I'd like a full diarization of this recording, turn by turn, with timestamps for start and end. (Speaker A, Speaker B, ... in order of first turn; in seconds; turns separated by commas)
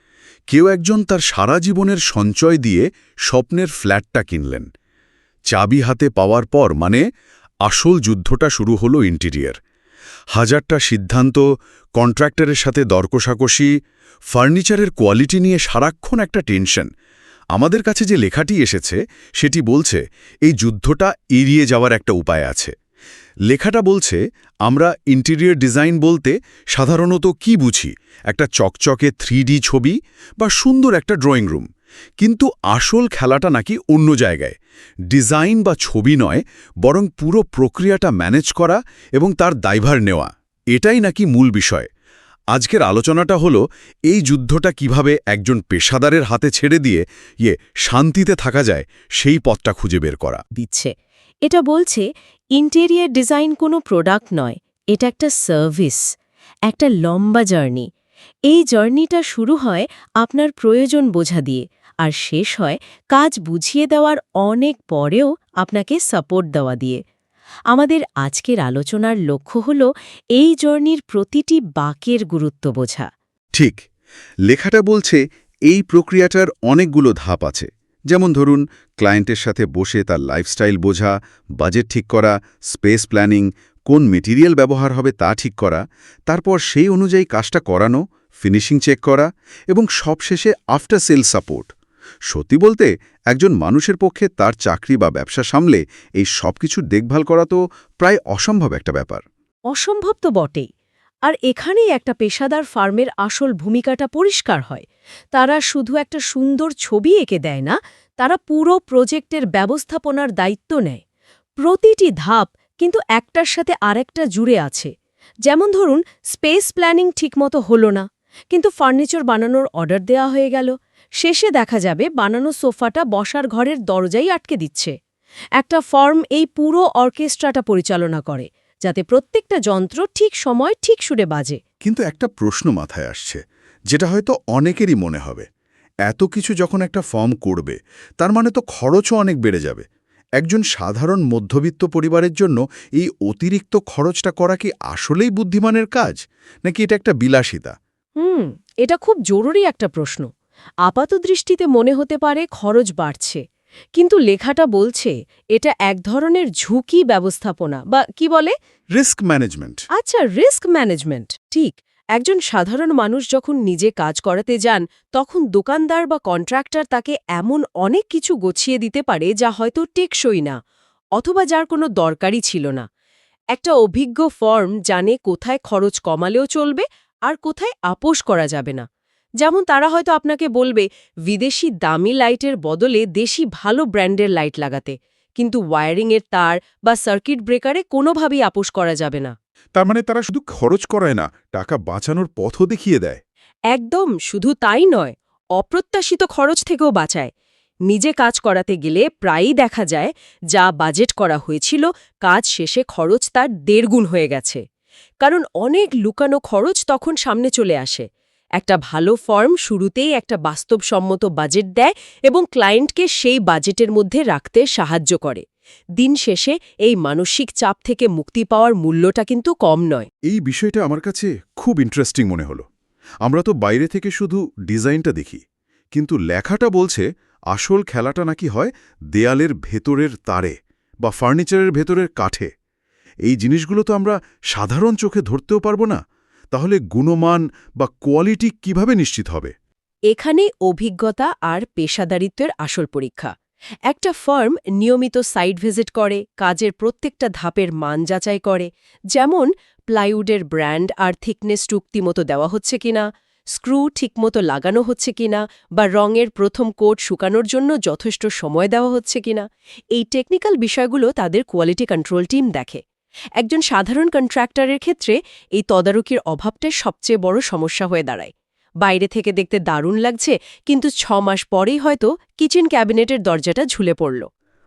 Speaker A: 0.5-4.7, Speaker A: 5.5-7.0, Speaker A: 7.6-9.6, Speaker A: 10.3-13.7, Speaker A: 14.3-16.9, Speaker A: 17.5-22.7, Speaker A: 23.5-31.7, Speaker A: 32.2-34.5, Speaker A: 35.1-41.9, Speaker A: 42.5-50.4, Speaker B: 50.5-50.9, Speaker B: 51.5-56.0, Speaker B: 56.7-57.9, Speaker B: 58.5-67.0, Speaker B: 67.7-73.1, Speaker A: 73.5-73.8, Speaker A: 74.5-91.7, Speaker A: 92.3-99.2, Speaker B: 99.7-100.7, Speaker B: 101.2-111.0, Speaker B: 111.6-114.9, Speaker B: 115.5-124.9, Speaker B: 125.6-131.6, Speaker A: 131.8-135.4, Speaker A: 136.1-139.8, Speaker A: 140.4-147.7, Speaker B: 148.2-150.3, Speaker B: 150.8-153.4, Speaker B: 153.9-158.5, Speaker A: 159.0-159.8, Speaker B: 159.9-170.6, Speaker B: 171.2-172.8, Speaker B: 173.5-178.8, Speaker B: 179.4-189.3, Speaker A: 189.8-193.2, Speaker B: 193.7-197.3, Speaker B: 197.9-204.6, Speaker B: 205.2-208.1, Speaker B: 208.6-215.4, Speaker B: 216.0-220.1, Speaker A: 220.3-222.6, Speaker A: 223.2-225.4, Speaker A: 225.9-232.5, Speaker A: 233.2-236.0, Speaker A: 236.5-239.5, Speaker B: 240.1-243.3, Speaker B: 243.9-262.8, Speaker B: 263.4-268.3, Speaker B: 268.8-274.2